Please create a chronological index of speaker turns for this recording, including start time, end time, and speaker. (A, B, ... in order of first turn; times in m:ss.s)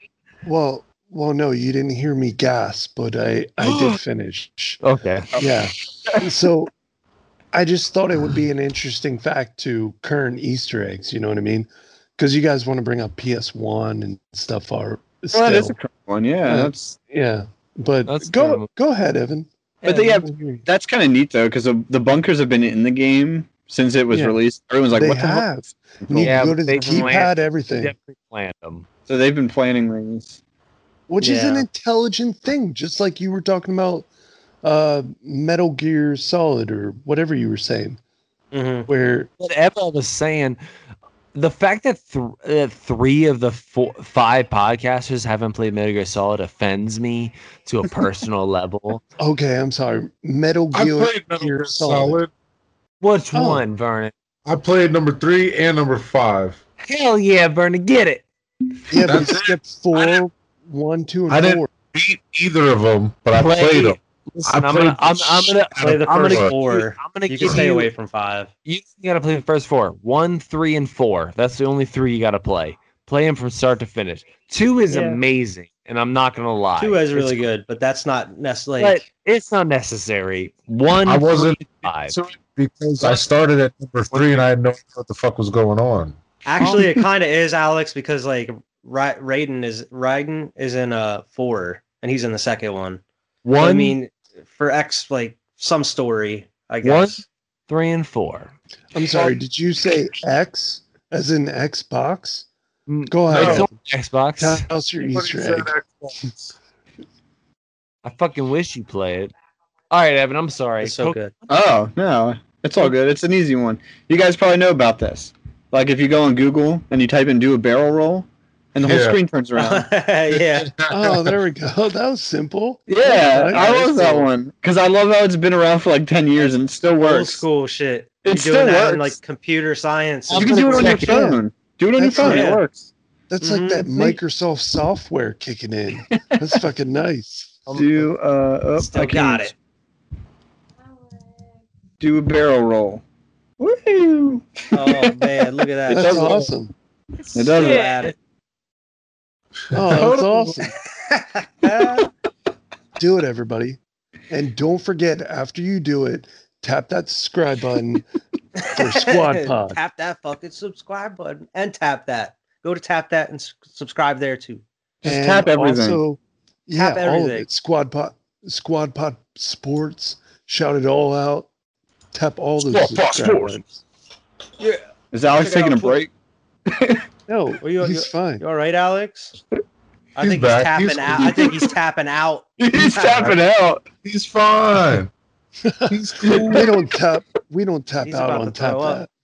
0:00.4-0:04.8 A
0:03.6-0:04.0 B
0:04.8-0:05.3 B
0:05.3-0:06.2 C
0:05.4-0:06.7 A
0:07.5-0:15.8 A
0:15.3-0:17.0 C
0:16.4-0:20.6 A
0:18.0-0:18.7 B
0:19.8-0:26.4 C
0:24.1-0:24.4 A
0:24.9-0:27.9 A
0:26.2-0:28.9 B
0:29.1-0:30.4 C
0:31.1-0:34.1 A
0:31.2-0:31.7 D
0:34.6-0:38.0 A
0:38.5-0:38.9 D
0:38.9-0:39.3 A
0:39.4-0:40.6 B
0:41.3-0:49.0 B
0:49.2-0:52.2 A
0:50.7-0:52.3 E
0:53.0-0:54.1 B
0:53.3-0:53.6 A
0:54.4-0:56.6 E
0:56.8-0:58.3 B
0:58.9-1:01.7 A
0:59.0-1:00.2 E
1:01.3-1:06.5 E
1:03.4-1:07.9 B
1:05.8-1:08.5 D
1:08.6-1:17.4 B
1:14.9-1:15.2 D
1:16.8-1:19.1 D
1:18.8-1:22.2 B
1:21.0-1:26.2 E
1:23.0-1:23.3 D
1:24.1-1:24.4 B
1:26.4-1:33.0 D
1:26.6-1:26.9 B
1:33.4-1:34.0 B
1:33.6-1:37.2 D
1:36.8-1:38.5 B
1:38.9-1:42.5 A
1:42.9-1:44.6 B
1:43.1-1:43.7 A
1:43.3-1:43.7 E
1:44.4-1:45.7 A
1:45.0-1:46.5 E
1:48.0-1:49.3 B
1:49.9-1:51.2 B
1:50.8-1:51.3 D
1:51.5-1:59.9 C
1:58.8-1:59.2 E
1:59.6-2:00.7 D
2:00.6-2:01.3 E
2:00.9-2:04.2 A
2:02.9-2:07.4 C
2:07.0-2:11.2 D
2:08.2-2:09.2 C
2:10.3-2:11.3 B
2:10.3-2:12.9 C
2:12.0-2:12.5 A
2:12.2-2:12.6 D
2:13.3-2:17.6 A
2:13.4-2:14.1 D
2:17.7-2:18.1 B
2:17.7-2:19.5 C
2:18.8-2:19.5 D
2:22.0-2:23.0 C
2:23.6-2:26.5 C
2:24.7-2:26.4 D
2:25.9-2:26.7 A
2:27.3-2:27.9 C
2:27.4-2:28.1 D
2:27.5-2:28.1 B
2:29.7-2:30.7 A
2:29.7-2:30.7 E
2:31.0-2:32.1 D
2:33.0-2:33.8 A
2:34.3-2:38.0 A
2:38.6-2:44.6 D
2:38.7-2:39.8 A
2:45.0-2:46.0 C
2:45.0-2:51.5 A
2:46.8-2:47.5 D
2:52.1-2:53.7 A
2:52.6-2:53.6 E
2:55.1-2:56.1 C
2:55.3-2:56.0 D
2:56.7-2:57.0 C
2:57.3-2:58.4 A
2:57.6-2:59.3 D
3:00.2-3:03.4 D
3:00.2-3:01.7 E
3:01.2-3:01.5 C
3:02.6-3:03.9 C
3:03.9-3:05.1 E
3:05.6-3:09.1 A
3:05.9-3:06.8 E
3:06.2-3:06.6 C
3:08.0-3:09.0 D